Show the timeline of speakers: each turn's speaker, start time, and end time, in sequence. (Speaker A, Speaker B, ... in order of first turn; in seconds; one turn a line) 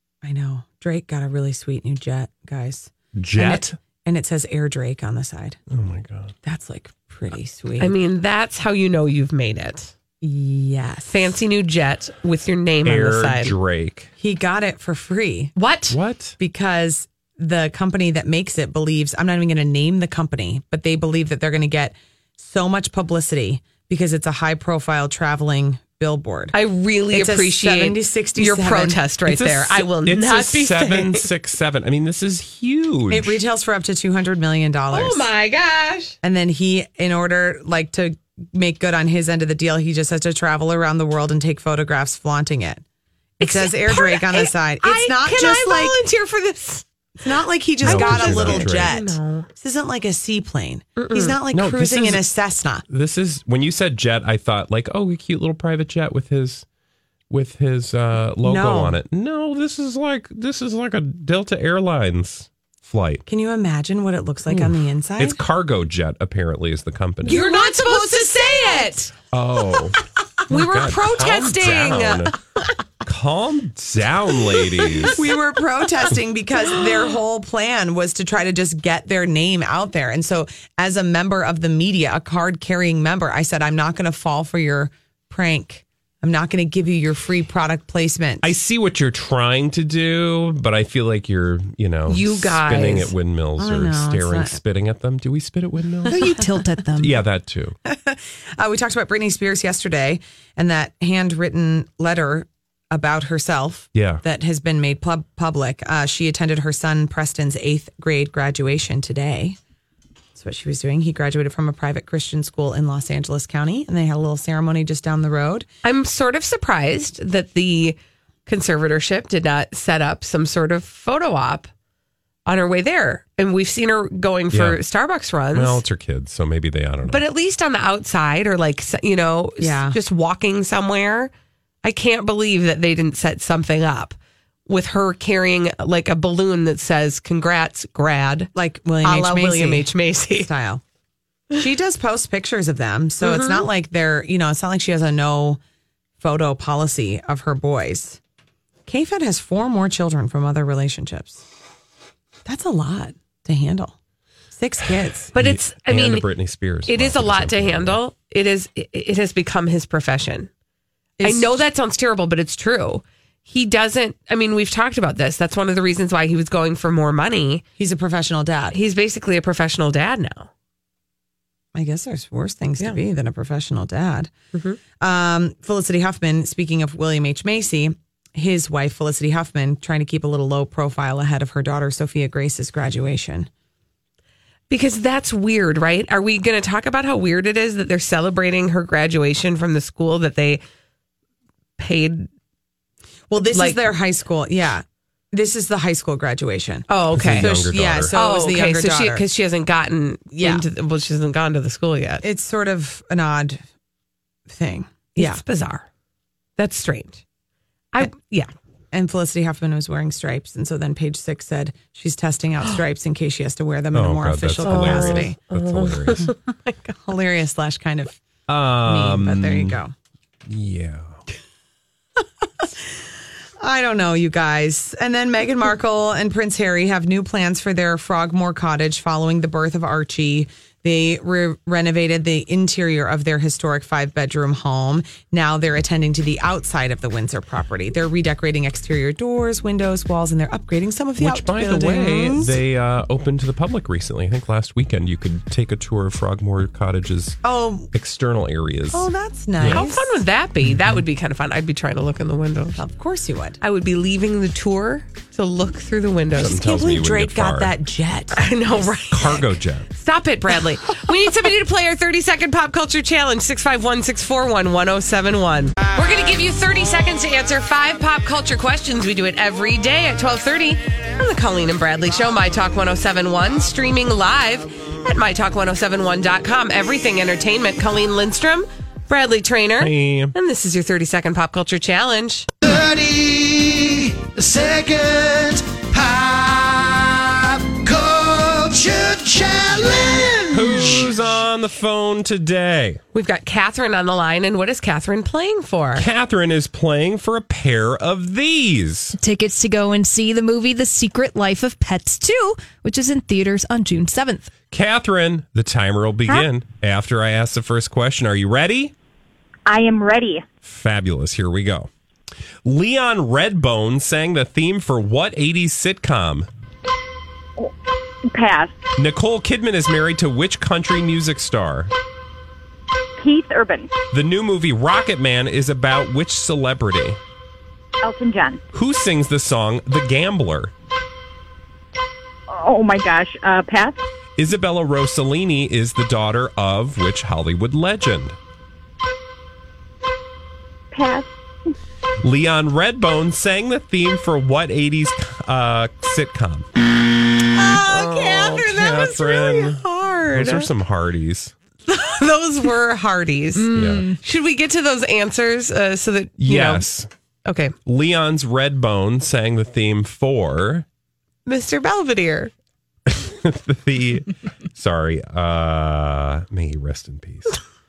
Speaker A: 0.2-5.6
Speaker B: 3.1-3.8
Speaker B: 5.7-6.3
Speaker A: 6.4-8.0
Speaker C: 7.8-9.9
Speaker A: 10.2-11.3
Speaker C: 11.1-13.6
Speaker B: 12.8-14.1
Speaker A: 14.2-15.5
Speaker C: 15.6-16.0
Speaker B: 15.9-16.4
Speaker A: 16.4-26.6
Speaker C: 26.5-31.3
Speaker A: 27.1-29.0
Speaker B: 29.3-33.4
Speaker A: 33.1-35.3
Speaker C: 34.9-36.2
Speaker A: 36.2-42.8
Speaker A: 43.4-46.0
Speaker C: 43.4-46.9
Speaker A: 47.2-52.8
Speaker C: 47.8-49.5
Speaker B: 47.8-48.9
Speaker C: 51.0-51.4
Speaker B: 51.5-52.3
Speaker B: 52.9-56.6
Speaker B: 57.3-63.2
Speaker A: 58.4-59.0
Speaker A: 63.3-65.4
Speaker B: 64.5-67.4
Speaker C: 67.2-69.1
Speaker A: 67.3-68.9
Speaker B: 69.3-72.4
Speaker C: 70.5-72.3
Speaker B: 73.0-75.3
Speaker A: 75.1-88.5
Speaker B: 88.4-96.3
Speaker C: 92.1-93.1
Speaker A: 93.6-94.6
Speaker D: 96.1-97.2
Speaker B: 97.0-97.8
Speaker A: 97.9-109.6
Speaker B: 103.9-104.2
Speaker A: 110.3-115.7
Speaker C: 115.8-121.7
Speaker C: 122.5-125.8
Speaker B: 124.5-124.8
Speaker B: 125.5-127.2
Speaker C: 127.1-131.3
Speaker A: 129.6-130.0
Speaker C: 131.8-134.2
Speaker C: 134.7-138.5
Speaker A: 138.6-140.8
Speaker C: 139.0-140.5
Speaker A: 141.5-145.6
Speaker C: 143.2-143.6
Speaker A: 146.2-148.2
Speaker A: 148.9-151.4
Speaker A: 152.4-153.9
Speaker A: 154.5-155.3
Speaker C: 155.3-156.3
Speaker B: 155.3-158.0
Speaker C: 156.9-160.5
Speaker A: 161.2-161.6
Speaker C: 161.2-167.6
Speaker A: 167.8-168.8
Speaker C: 168.7-170.5
Speaker A: 171.7-174.3
Speaker C: 174.5-174.8
Speaker A: 175.0-183.5
Speaker C: 184.7-190.6
Speaker C: 191.8-192.3
Speaker A: 193.3-199.2
Speaker C: 193.5-193.9
Speaker C: 196.9-197.5
Speaker B: 197.1-198.1
Speaker C: 198.1-202.2
Speaker A: 200.3-200.6
Speaker A: 202.2-203.6
Speaker A: 204.5-205.4
Speaker C: 205.2-205.9
Speaker C: 206.6-207.2
Speaker C: 207.9-208.5
Speaker A: 208.9-215.4
Speaker B: 213.9-216.3
Speaker C: 214.6-216.9
Speaker A: 217.0-218.2
Speaker B: 218.5-219.8
Speaker A: 218.8-219.9
Speaker B: 220.5-221.2
Speaker A: 222.6-223.0
Speaker A: 223.6-242.6
Speaker B: 241.2-247.4
Speaker A: 247.4-247.9
Speaker B: 247.9-249.9
Speaker A: 248.9-250.1
Speaker C: 249.6-252.8
Speaker B: 250.7-250.9
Speaker A: 252.8-253.6
Speaker C: 253.6-256.7
Speaker B: 256.4-257.7
Speaker A: 256.5-258.6
Speaker C: 258.3-282.5
Speaker B: 259.1-259.9
Speaker B: 279.8-280.4
Speaker E: 282.6-291.1
Speaker B: 290.5-293.0
Speaker C: 293.1-296.1
Speaker B: 295.9-299.2
Speaker D: 299.2-304.5
Speaker B: 304.7-308.9
Speaker F: 309.7-310.4
Speaker B: 310.6-311.9
Speaker B: 312.6-316.5
Speaker F: 318.3-318.7
Speaker B: 319.0-321.9
Speaker F: 323.2-323.9
Speaker B: 324.1-327.2
Speaker F: 328.0-328.6
Speaker B: 328.7-330.7
Speaker F: 332.5-334.0
Speaker B: 334.4-338.4
Speaker F: 340.9-341.3
Speaker B: 342.2-346.7
Speaker C: 347.8-350.7
Speaker B: 348.3-351.5
Speaker C: 351.9-356.9
Speaker D: 353.6-354.2
Speaker B: 353.7-354.1
Speaker B: 356.4-357.1
Speaker C: 357.4-357.8
Speaker B: 357.9-360.9
Speaker C: 361.4-362.5
Speaker B: 363.1-367.6